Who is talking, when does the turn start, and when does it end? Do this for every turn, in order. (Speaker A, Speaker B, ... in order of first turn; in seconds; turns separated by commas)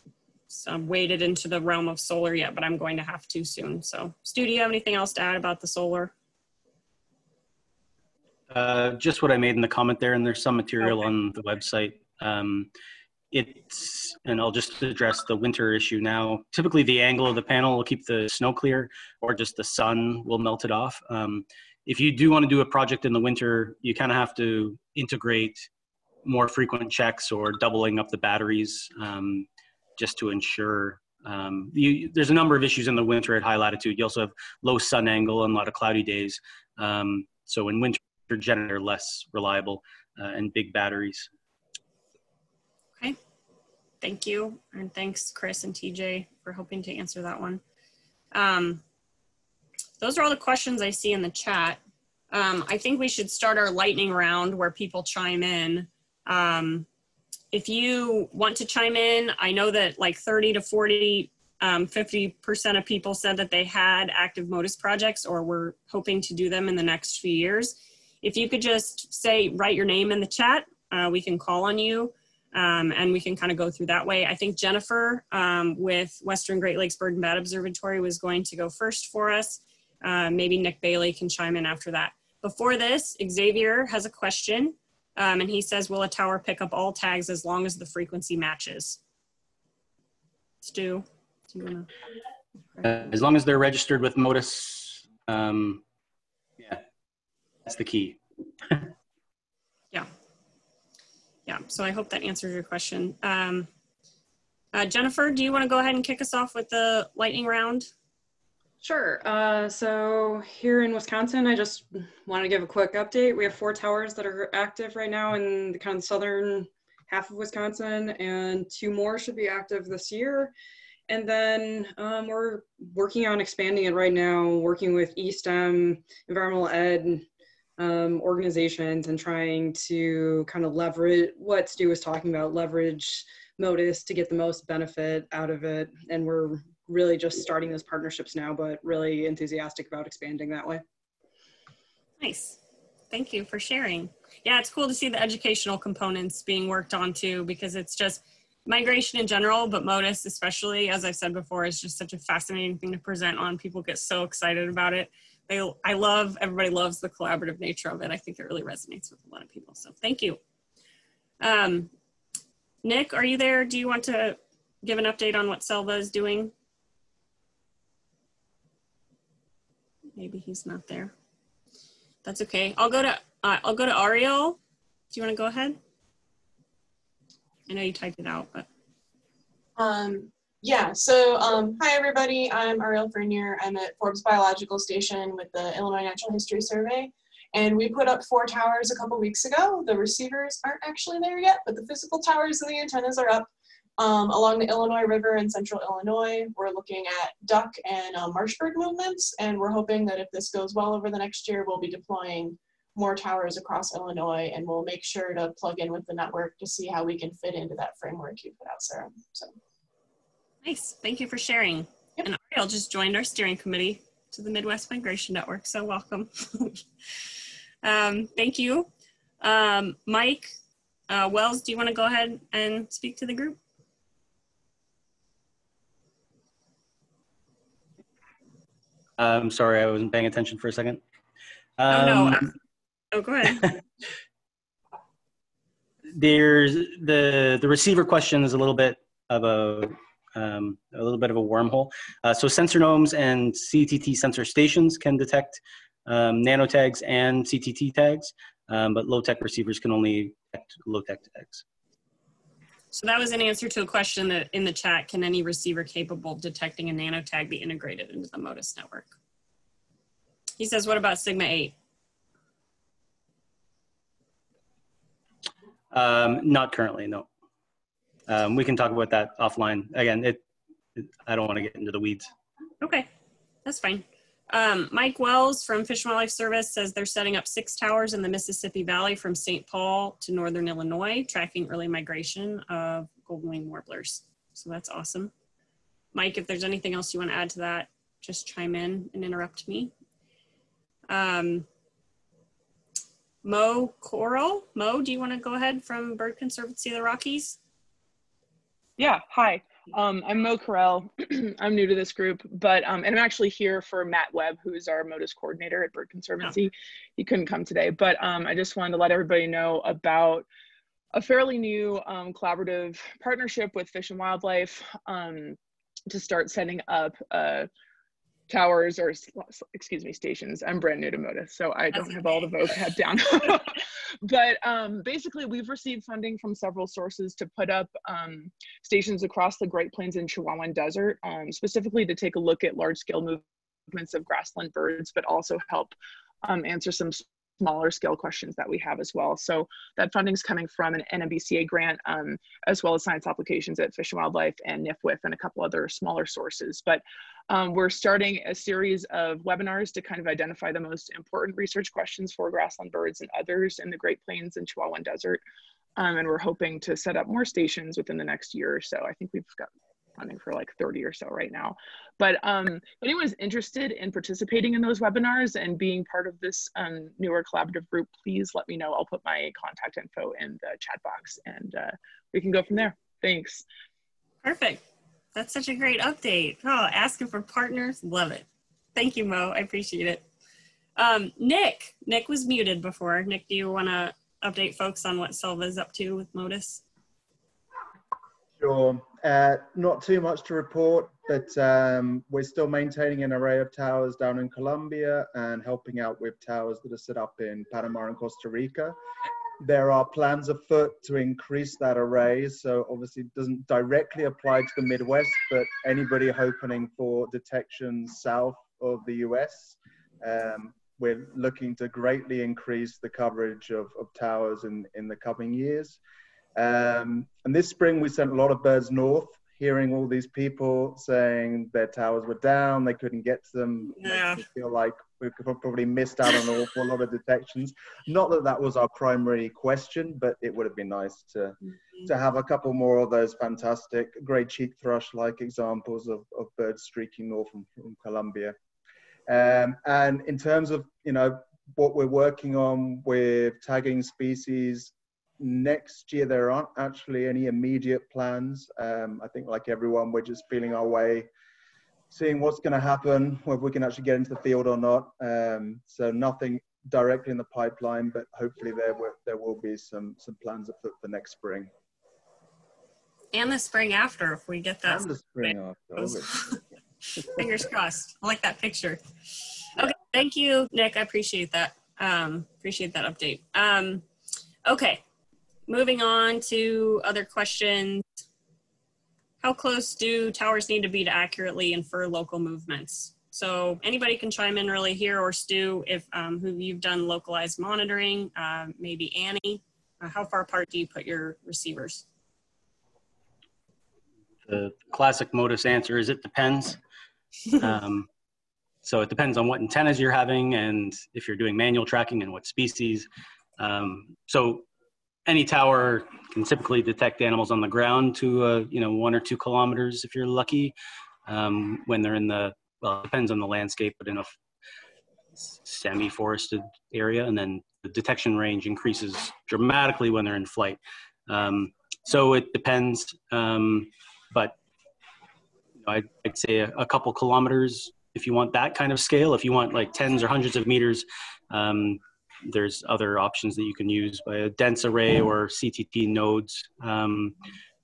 Speaker A: 0.5-6.1, Speaker B: 8.5-12.7, Speaker B: 13.3-25.7, Speaker B: 26.2-41.3, Speaker A: 44.0-47.6, Speaker A: 48.3-48.8, Speaker A: 50.0-51.8, Speaker A: 52.3-56.9, Speaker A: 57.5-89.0, Speaker A: 90.6-91.9, Speaker B: 92.8-95.8, Speaker B: 97.7-98.2, Speaker A: 101.5-103.7, Speaker A: 104.7-107.9, Speaker C: 108.8-120.5, Speaker C: 121.1-127.2, Speaker C: 127.8-140.8, Speaker A: 142.2-142.6, Speaker A: 143.1-160.4, Speaker A: 161.4-161.9, Speaker A: 162.8-166.5, Speaker A: 170.2-171.1, Speaker A: 172.2-174.6, Speaker A: 175.1-175.8, Speaker A: 177.7-178.7, Speaker D: 179.8-209.5, Speaker A: 210.6-216.8, Speaker A: 217.8-218.9, Speaker A: 219.4-220.5, Speaker A: 221.1-223.6, Speaker B: 229.2-231.0, Speaker B: 231.8-232.5, Speaker A: 231.9-232.5, Speaker A: 233.1-233.8, Speaker B: 236.1-251.6, Speaker A: 252.9-259.1, Speaker A: 260.6-261.7, Speaker B: 265.9-267.3, Speaker B: 268.3-270.4, Speaker B: 270.9-272.3, Speaker A: 272.8-273.1, Speaker A: 273.6-285.3, Speaker A: 286.1-289.9, Speaker A: 291.1-291.7, Speaker A: 293.4-297.6, Speaker E: 299.0-310.4, Speaker E: 311.1-315.6, Speaker E: 316.1-317.7, Speaker E: 318.5-355.4, Speaker A: 321.9-322.4, Speaker E: 355.9-373.6, Speaker A: 374.4-380.2, Speaker A: 380.9-386.8, Speaker F: 388.6-398.9, Speaker F: 399.6-416.0, Speaker F: 416.6-438.6, Speaker A: 424.0-424.4, Speaker F: 439.3-451.3, Speaker F: 452.1-461.7, Speaker A: 463.3-466.6, Speaker F: 464.8-466.4, Speaker A: 467.2-469.0, Speaker A: 469.8-474.0, Speaker A: 474.6-475.0, Speaker A: 475.7-478.0, Speaker A: 479.4-492.1, Speaker B: 494.5-496.8, Speaker B: 497.6-498.1, Speaker B: 498.8-503.1, Speaker B: 503.6-504.6, Speaker B: 505.3-510.7, Speaker B: 511.2-514.3, Speaker B: 515.6-524.5, Speaker B: 525.8-537.3